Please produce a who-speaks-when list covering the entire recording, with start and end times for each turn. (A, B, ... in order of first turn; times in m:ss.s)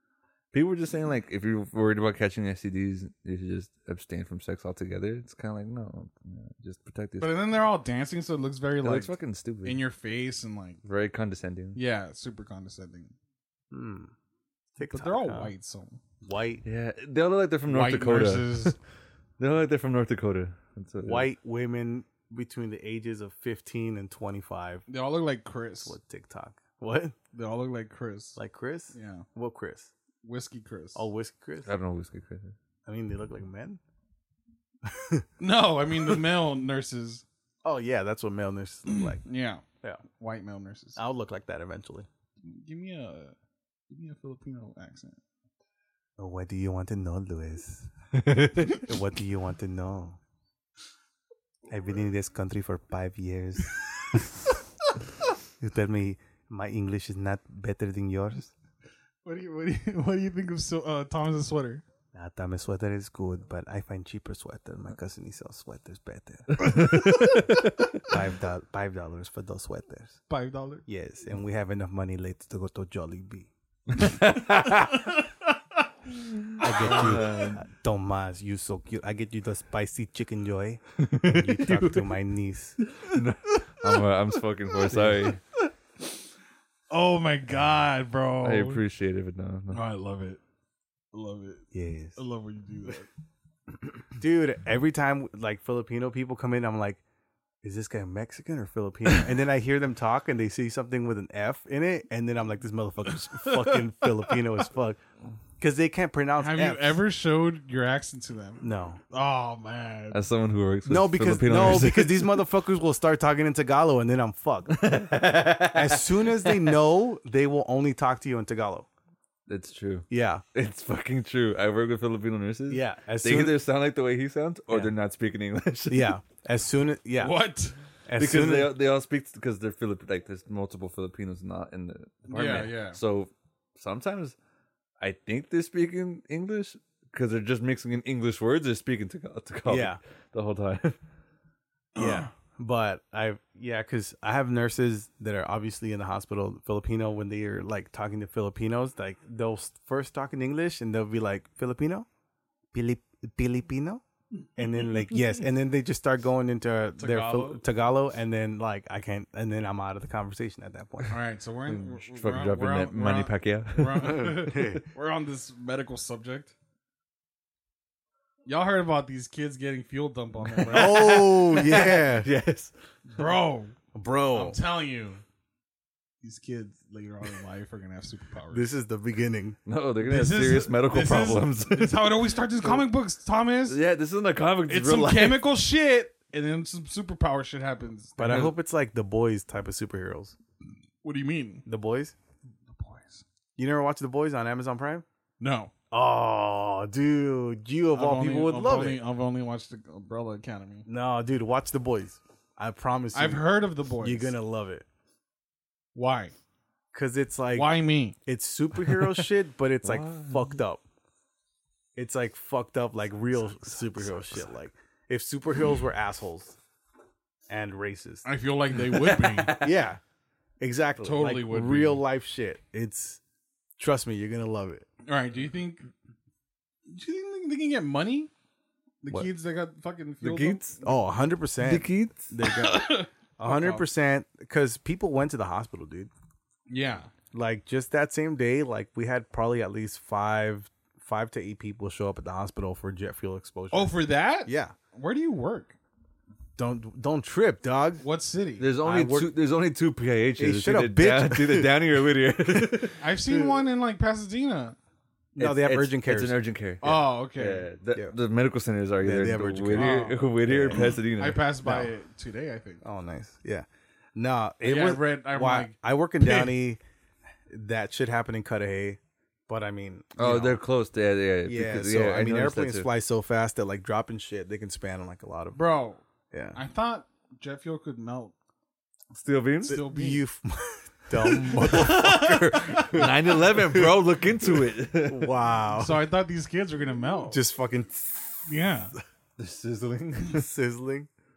0:00.5-0:07.3 A
0:07.2-0:10.8 B
0:08.8-0:09.8 A
0:10.8-0:11.8 A
0:11.8-0:13.1 B
0:13.7-0:14.1 C
0:14.8-0:15.5 C
0:14.9-0:16.0 B
0:16.2-0:16.6 C
0:16.6-0:18.8 A
0:17.7-0:18.8 B
0:19.4-0:21.3 A
0:21.0-0:24.8 C
0:24.9-0:26.0 B
0:25.8-0:27.2 C
0:27.3-0:28.4 B
0:28.4-0:29.9 C
0:28.9-0:29.2 B
0:30.2-0:31.1 B
0:31.0-0:31.7 C
0:31.6-0:32.6 A
0:32.9-0:33.8 C
0:34.9-0:35.3 C
0:35.4-0:37.2 B
0:37.6-0:39.2 C
0:38.9-0:41.0 B
0:41.0-0:42.1 C
0:42.4-0:43.4 B
0:43.9-0:45.2 B
0:46.2-0:50.2 C
0:48.3-0:48.6 A
0:51.7-0:54.3 C
0:55.6-0:58.5 C
0:59.2-1:01.8 B
1:02.1-1:06.9 C
1:06.6-1:07.9 A
1:08.0-1:10.2 C
1:10.3-1:10.8 B
1:10.9-1:13.5 C
1:13.9-1:15.0 A
1:16.4-1:17.6 A
1:16.6-1:22.8 C
1:21.0-1:22.1 A
1:22.8-1:25.4 A
1:24.9-1:25.3 C
1:26.9-1:28.8 B
1:28.4-1:29.8 A
1:29.7-1:30.4 B
1:31.1-1:33.1 B
1:31.7-1:32.2 C
1:34.2-1:37.0 C
1:37.6-1:45.0 C
1:43.4-1:43.8 B
1:45.6-1:47.0 C
1:46.4-1:50.2 B
1:48.6-1:49.0 C
1:50.1-1:52.4 A
1:50.9-1:54.9 C
1:54.7-1:56.7 A
1:55.6-1:58.9 C
1:59.5-2:06.2 A
2:00.1-2:00.4 C
2:02.7-2:03.6 C
2:05.9-2:07.4 C
2:07.2-2:07.8 B
2:08.1-2:08.7 C
2:08.2-2:14.4 A
2:12.3-2:13.0 B
2:15.0-2:21.0 A
2:19.7-2:20.0 C
2:22.0-2:32.1 C
2:22.0-2:22.3 B
2:32.7-2:34.0 C
2:34.6-2:41.2 C
2:37.0-2:37.6 B
2:41.1-2:46.5 B
2:41.7-2:44.7 A
2:44.1-2:44.8 C
2:48.5-2:51.3 B
2:50.4-2:52.7 A
2:50.7-2:52.3 C
2:53.2-2:53.8 B
2:53.9-2:54.6 C
2:54.3-2:55.2 B
2:56.2-2:58.7 B
2:58.5-2:59.6 C
2:59.7-3:02.2 A
3:00.0-3:03.8 B
3:03.7-3:05.4 A
3:04.7-3:08.5 B
3:08.2-3:10.4 C
3:11.0-3:11.6 B
3:11.7-3:12.1 C
3:12.7-3:13.2 B
3:13.6-3:15.0 C
3:15.4-3:15.7 B
3:15.9-3:19.0 C
3:18.0-3:20.8 B
3:20.9-3:23.4 C
3:23.1-3:24.3 B
3:24.0-3:24.8 C
3:26.0-3:26.3 B
3:26.9-3:30.8 C
3:27.5-3:28.2 B
3:29.8-3:30.6 A
3:32.0-3:36.6 C
3:37.5-3:38.3 C
3:38.2-3:39.6 B
3:38.9-3:39.7 A
3:39.5-3:40.0 C
3:40.6-3:43.2 C
3:41.0-3:42.0 B
3:43.8-3:44.9 C
3:45.0-3:45.9 B
3:46.9-3:48.3 B
3:49.0-3:50.8 B
3:50.2-3:50.8 A
3:50.8-3:56.1 C
3:51.6-3:52.3 A
3:52.4-3:53.9 B
3:56.7-3:57.1 B
3:57.3-4:04.8 C
4:03.7-4:05.8 B
4:06.6-4:08.0 C
4:08.0-4:08.7 B
4:08.6-4:13.0 A
4:08.8-4:09.3 C
4:10.4-4:11.8 C
4:13.0-4:14.8 B
4:15.4-4:16.4 C
4:15.4-4:21.5 A
4:16.8-4:17.7 B
4:19.0-4:20.9 C
4:19.7-4:20.2 B
4:20.7-4:22.8 B
4:22.8-4:26.8 C
4:24.6-4:26.6 B
4:27.5-4:30.6 C
4:30.2-4:32.9 A
4:31.5-4:35.6 C
4:35.6-4:36.0 B
4:36.3-4:36.6 C
4:36.6-4:38.3 B
4:39.1-4:39.8 A
4:39.7-4:40.2 B
4:39.7-4:43.9 C
4:41.2-4:43.1 B
4:41.6-4:45.3 A
4:45.0-4:46.0 C
4:45.8-4:47.4 B
4:47.3-4:48.5 C
4:48.5-4:48.9 B
4:49.4-4:50.4 A
4:50.2-4:51.1 C